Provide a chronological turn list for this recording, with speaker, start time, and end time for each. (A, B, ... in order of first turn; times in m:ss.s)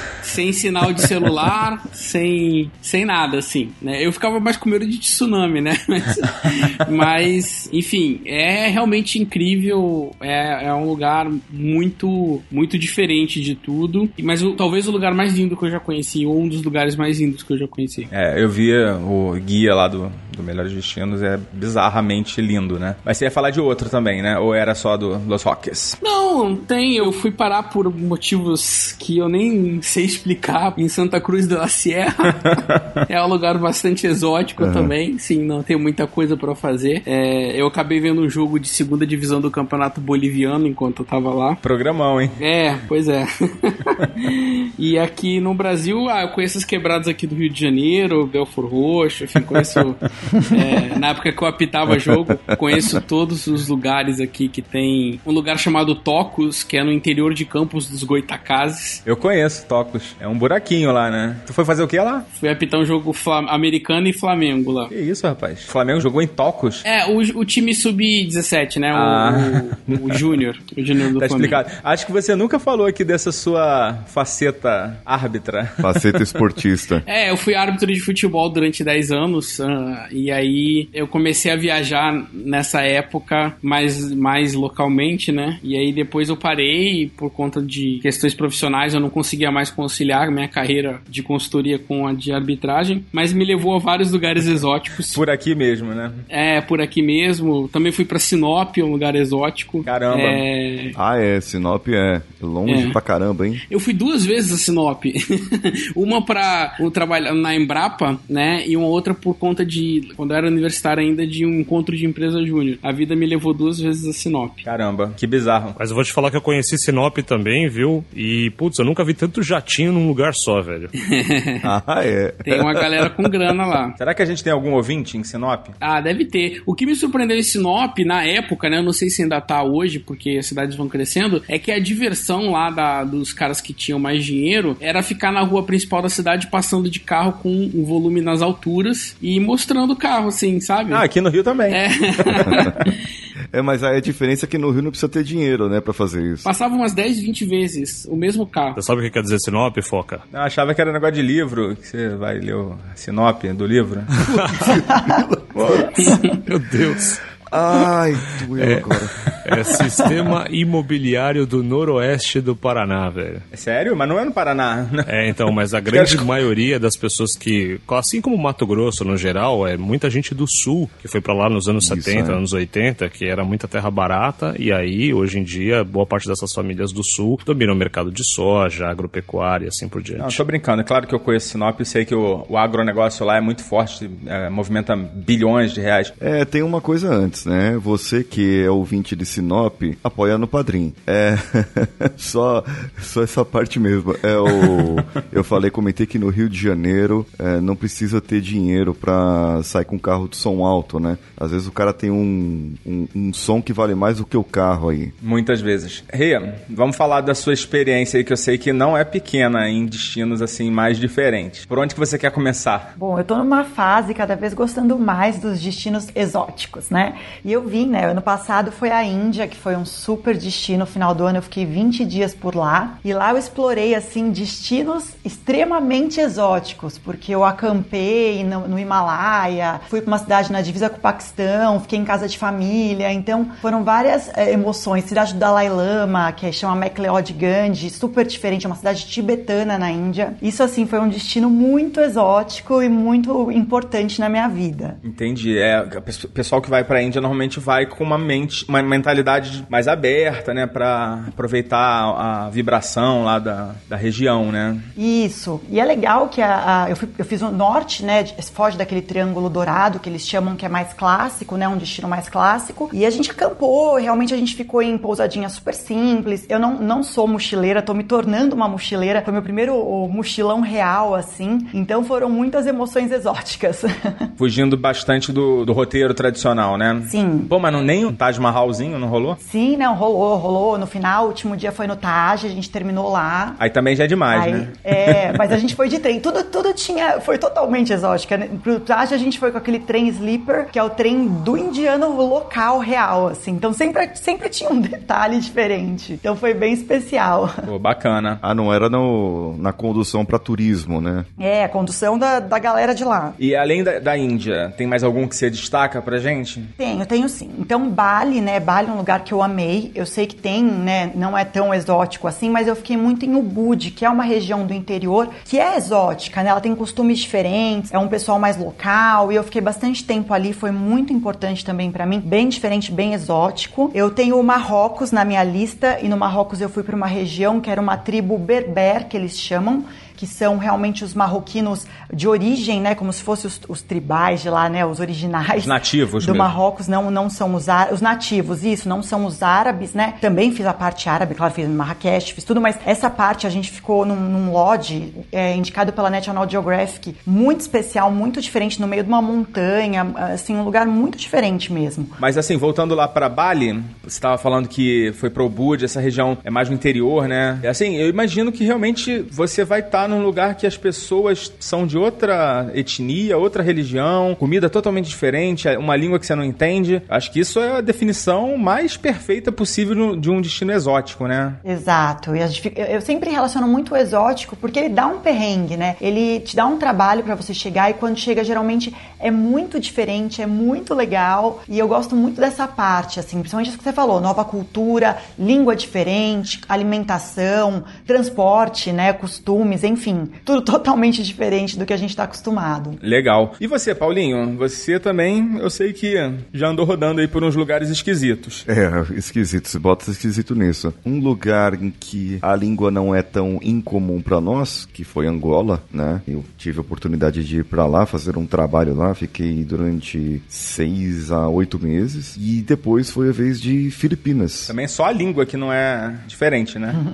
0:00.2-0:18.1 A
0:18.1-0:26.0 B
0:26.0-0:41.6 A
0:32.5-0:32.8 B
0:34.6-0:34.9 C
0:41.6-0:42.4 B
0:42.4-0:59.0 A
0:52.5-0:53.0 C
0:59.0-1:02.3 B
1:02.3-1:04.9 A
1:04.9-1:06.8 B
1:06.8-1:11.6 A
1:08.9-1:10.2 B
1:11.2-1:16.2 B
1:15.8-1:17.0 C
1:17.0-1:35.2 A
1:35.1-1:36.2 B
1:36.3-1:41.0 A
1:39.9-1:40.4 B
1:41.0-1:43.6 C
1:42.7-1:43.0 A
1:43.7-1:54.6 A
1:54.6-1:55.8 B
1:55.8-2:00.9 D
2:01.0-2:01.6 A
2:01.6-2:03.3 C
2:02.4-2:04.0 A
2:04.0-2:05.8 B
2:05.8-2:21.0 A
2:20.9-2:21.8 B
2:21.7-2:22.9 A
2:23.5-2:26.5 C
2:26.4-2:28.8 A
2:28.8-2:30.2 D
2:30.3-2:34.1 B
2:34.2-2:34.8 D
2:34.2-2:36.1 C
2:35.7-2:37.2 D
2:35.9-2:36.2 A
2:37.5-2:39.1 C
2:38.6-2:43.4 D
2:43.5-2:45.3 B
2:45.1-3:00.4 D
2:45.9-2:46.3 B
2:51.8-2:52.4 C
3:00.2-3:06.1 B
3:06.2-3:25.1 C
3:25.2-3:32.9 B
3:33.0-4:05.0 E
4:05.0-4:14.9 B
4:15.0-4:34.2 E
4:34.4-4:39.4 B
4:37.1-4:37.5 E
4:39.4-4:43.6 E
4:43.6-4:45.4 B
4:44.3-4:57.5 E
4:57.6-4:58.4 B
4:58.4-5:01.3 C
5:01.4-5:03.4 E
5:03.4-5:06.7 B
5:06.8-5:52.2 E
5:35.6-5:36.6 B
5:52.2-6:11.6 B
6:11.6-6:33.0 E
6:33.0-6:38.6 B
6:38.6-6:54.7 C
6:54.7-6:57.0 B